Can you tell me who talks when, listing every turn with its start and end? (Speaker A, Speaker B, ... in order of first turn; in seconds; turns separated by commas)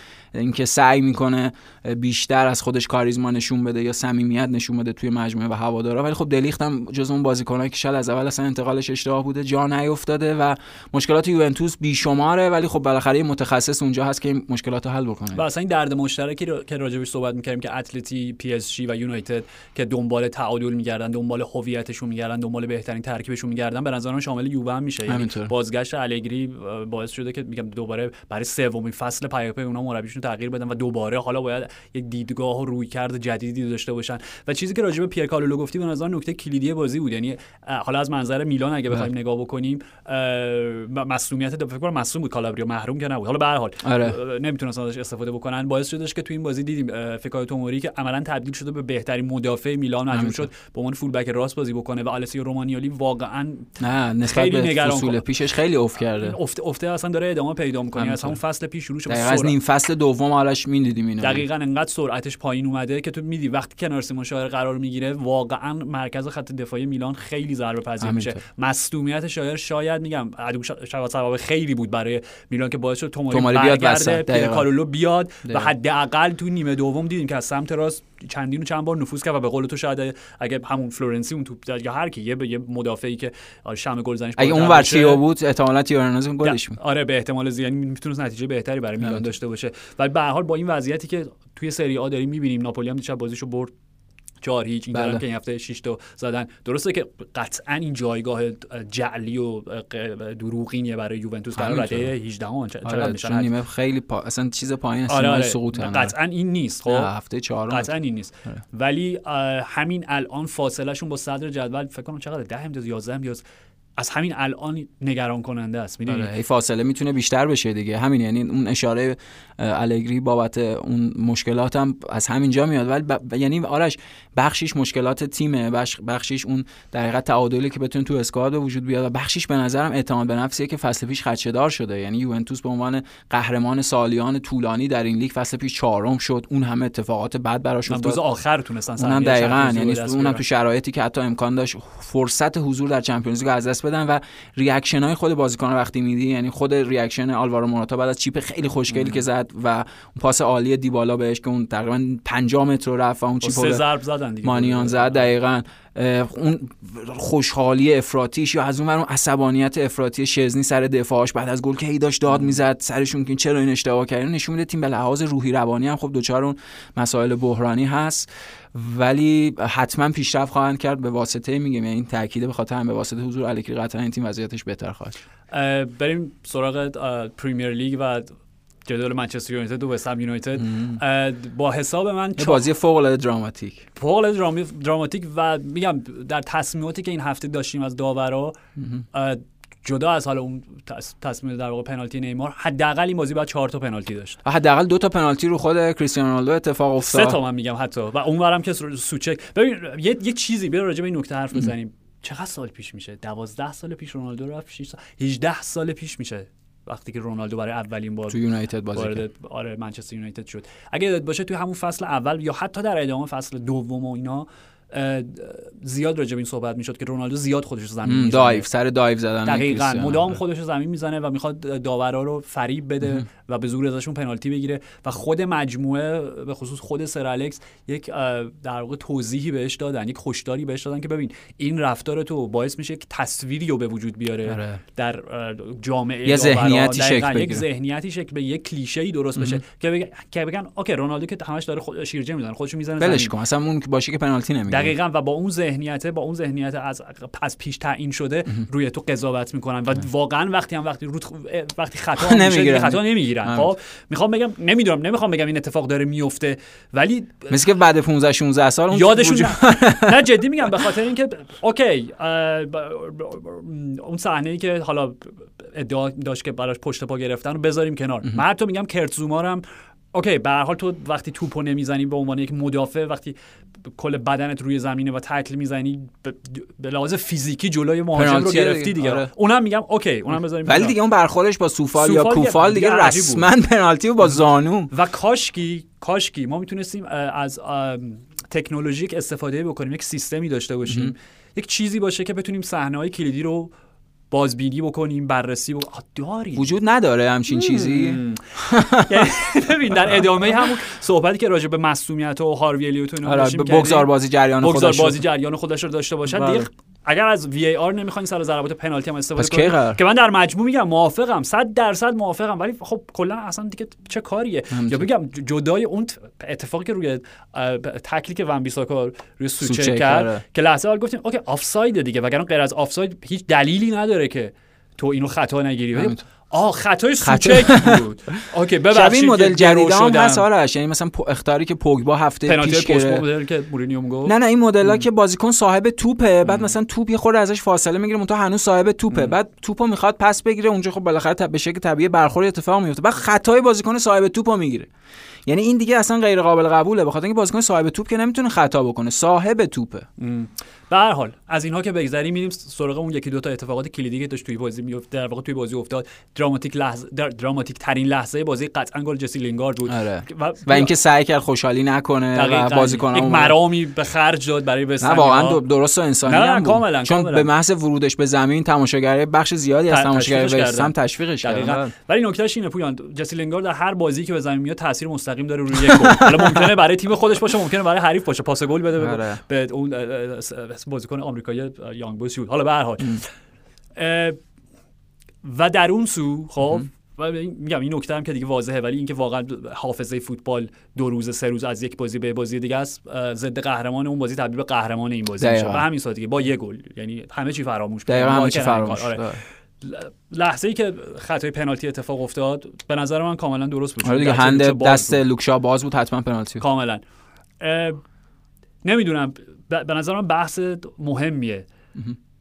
Speaker A: 0.3-15.4, Speaker B: 15.3-53.7, Speaker A: 25.1-25.5, Speaker A: 43.8-44.1, Speaker A: 50.1-50.5, Speaker A: 53.8-56.4, Speaker B: 54.2-55.2, Speaker B: 56.2-59.5, Speaker A: 58.0-58.4, Speaker A: 59.1-61.4, Speaker B: 61.2-85.2, Speaker A: 68.0-68.4, Speaker A: 73.3-74.7, Speaker A: 75.4-75.7, Speaker A: 84.4-86.8, Speaker B: 86.4-93.7, Speaker B: 94.4-103.5, Speaker A: 94.9-95.2, Speaker A: 101.5-102.1, Speaker A: 102.8-106.1, Speaker B: 105.1-107.1, Speaker A: 106.9-107.9, Speaker B: 107.7-113.4, Speaker B: 114.0-116.3, Speaker A: 116.1-138.2, Speaker B: 137.9-140.4, Speaker A: 139.0-153.8, Speaker B: 148.9-149.2, Speaker B: 153.4-155.3, Speaker A: 154.4-175.2, Speaker B: 175.5-182.7, Speaker A: 180.6-181.0, Speaker A: 182.4-183.8, Speaker B: 184.0-188.6, Speaker A: 188.8-189.0, Speaker B: 189.1-194.4, Speaker A: 194.4-197.4, Speaker B: 197.0-208.4, Speaker A: 208.3-209.2, Speaker B: 208.9-218.7, Speaker A: 218.0-220.4, Speaker B: 219.4-243.3, Speaker A: 234.5-234.8, Speaker A: 236.2-237.7, Speaker A: 239.4-239.6, Speaker A: 243.0-244.9, Speaker B: 244.7-257.6, Speaker A: 252.2-253.7, Speaker A: 257.5-260.4, Speaker B: 258.9-273.3, Speaker B: 273.9-281.0, Speaker A: 278.1-279.3, Speaker A: 280.6-284.9, Speaker B: 281.9-283.5, Speaker B: 284.9-293.7, Speaker A: 290.9-291.1, Speaker B: 294.3-296.7, Speaker A: 296.6-299.3, Speaker B: 297.5-304.1, Speaker A: 303.2-305.2, Speaker B: 304.6-330.5, Speaker A: 306.3-306.7, Speaker A: 309.4-310.0, Speaker A: 314.7-315.1, Speaker A: 319.6-320.4, Speaker A: 325.9-326.2, Speaker A: 327.2-328.0, Speaker A: 328.9-333.2, Speaker B: 332.4-334.3, Speaker A: 334.2-344.9, Speaker B: 336.4-336.7, Speaker A: 345.4-350.1, Speaker B: 350.2-360.9, Speaker A: 359.9-363.6, Speaker B: 362.3-365.6, Speaker A: 365.0-371.9, Speaker B: 366.2-367.5, Speaker B: 369.9-383.3, Speaker A: 375.8-376.7, Speaker A: 379.0-379.4, Speaker B: 383.9-384.4, Speaker B: 385.4-405.2, Speaker A: 395.4-395.8, Speaker A: 398.1-399.4, Speaker A: 404.0-406.6, Speaker B: 406.6-407.0, Speaker B: 407.6-408.0, Speaker B: 408.8-411.7